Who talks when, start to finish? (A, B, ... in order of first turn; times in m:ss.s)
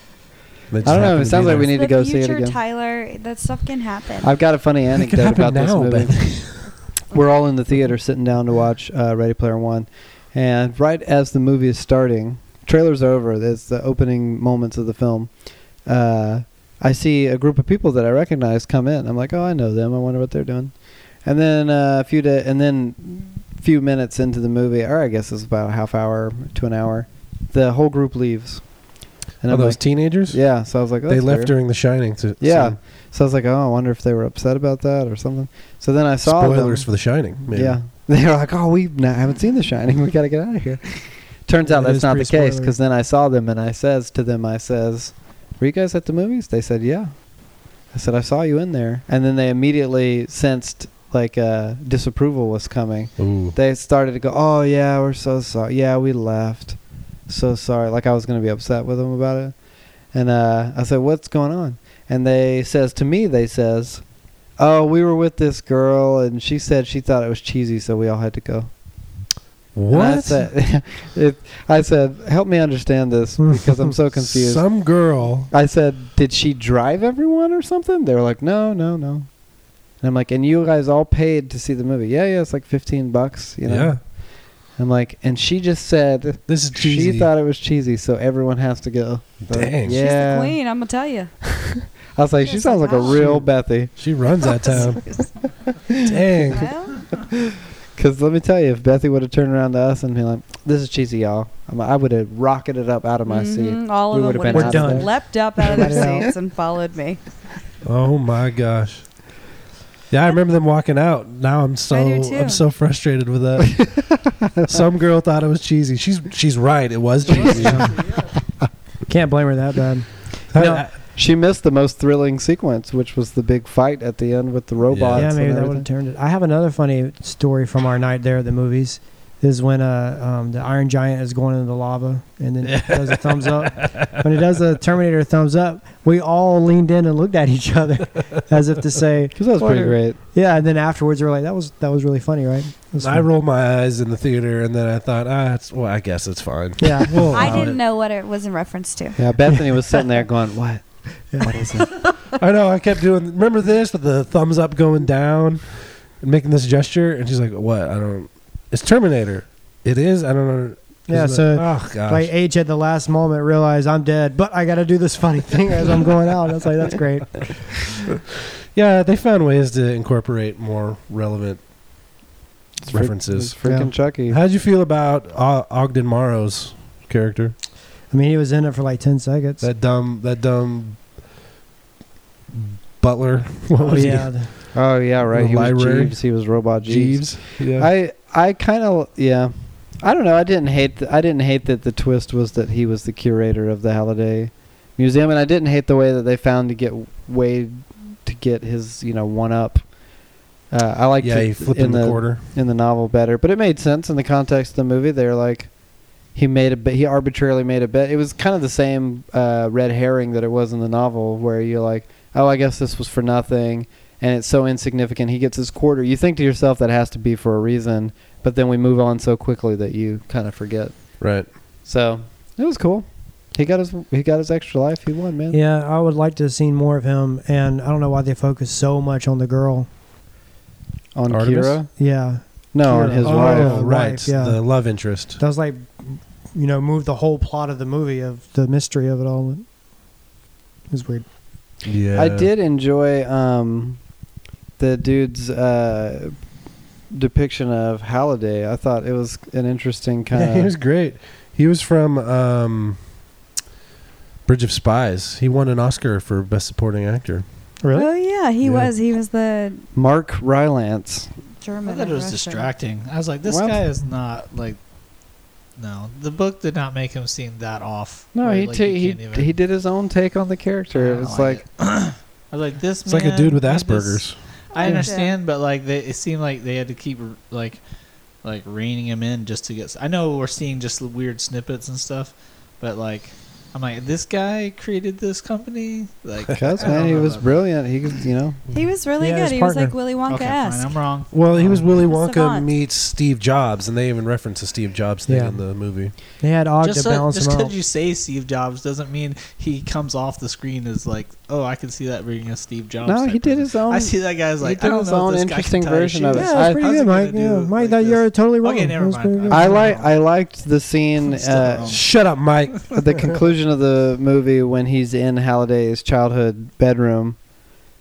0:00.7-0:01.7 A
0:00.8-0:02.6 B
0:00.9-0:04.3 C
0:04.2-1:09.0 B
0:05.0-0:06.8 A
0:29.5-0:32.8 A
0:36.2-0:37.8 A
0:41.6-0:42.7 D
0:53.2-0:53.6 A
1:09.8-1:10.5 A
1:09.9-1:30.7 B
1:14.1-1:15.5 A
1:23.6-1:24.0 A
1:26.5-1:27.3 A
1:29.5-1:30.0 A
1:29.9-1:31.4 C
1:31.5-1:34.8 B
1:32.4-1:33.2 C
1:33.1-1:35.3 A
1:34.4-1:35.4 C
1:35.9-1:36.4 B
1:36.0-1:36.7 A
1:36.5-1:37.1 C
1:38.0-1:46.2 B
1:43.3-1:47.2 C
1:44.5-1:46.3 D
1:47.8-1:49.4 A
1:50.1-1:58.0 A
1:51.9-1:52.6 C
1:57.3-1:58.3 E
1:57.4-1:57.8 B
1:59.1-2:00.8 D
2:00.5-2:00.9 A
2:00.6-2:05.9 B
2:04.9-2:05.3 A
2:05.1-2:23.3 D
2:12.6-2:14.2 A
2:19.4-2:20.2 B
2:23.0-2:27.8 A
2:26.8-2:27.7 D
2:27.3-2:29.7 C
2:29.2-2:31.9 B
2:31.3-2:31.6 D
2:32.3-2:42.3 A
2:41.1-2:48.0 D
2:48.7-2:51.6 A
2:52.8-2:54.4 B
2:52.9-2:57.6 A
2:53.6-2:53.9 D
2:58.1-2:59.6 D
2:59.6-3:01.2 A
3:02.5-3:07.9 A
3:03.8-3:45.6 B
3:03.8-3:04.5 D
3:21.2-3:22.4 A
3:41.2-3:41.5 A
3:45.5-3:49.9 D
3:51.1-3:53.8 B
3:51.3-3:51.8 A
3:52.0-3:59.7 D
3:53.2-3:55.4 A
4:00.9-4:01.3 D
4:01.8-4:02.5 A
4:02.1-4:04.1 B
4:04.8-4:06.4 B
4:07.1-4:10.7 B
4:10.3-4:13.0 A
4:14.5-4:17.4 A
4:17.8-4:18.1 D
4:17.9-4:19.8 C
4:18.6-4:18.9 A
4:19.9-4:21.3 B
4:21.6-4:22.7 C
4:21.8-4:24.8 E
4:23.4-4:23.8 B
4:25.8-4:29.5 E
4:28.3-4:31.6 B
4:30.9-4:37.8 E
4:33.0-4:34.4 A
4:34.7-4:35.4 C
4:38.4-4:47.8 E
4:46.5-4:48.6 B
4:48.7-4:51.1 C
4:49.2-4:50.0 D
4:50.2-4:52.1 E
4:51.3-4:56.2 A
4:51.9-4:52.7 C
4:55.3-4:57.8 D
4:56.8-5:10.2 E
5:03.0-5:06.8 B
5:06.3-5:09.8 D
5:09.5-5:12.0 B
5:11.3-5:12.2 E
5:11.8-5:13.0 A
5:12.9-5:17.5 B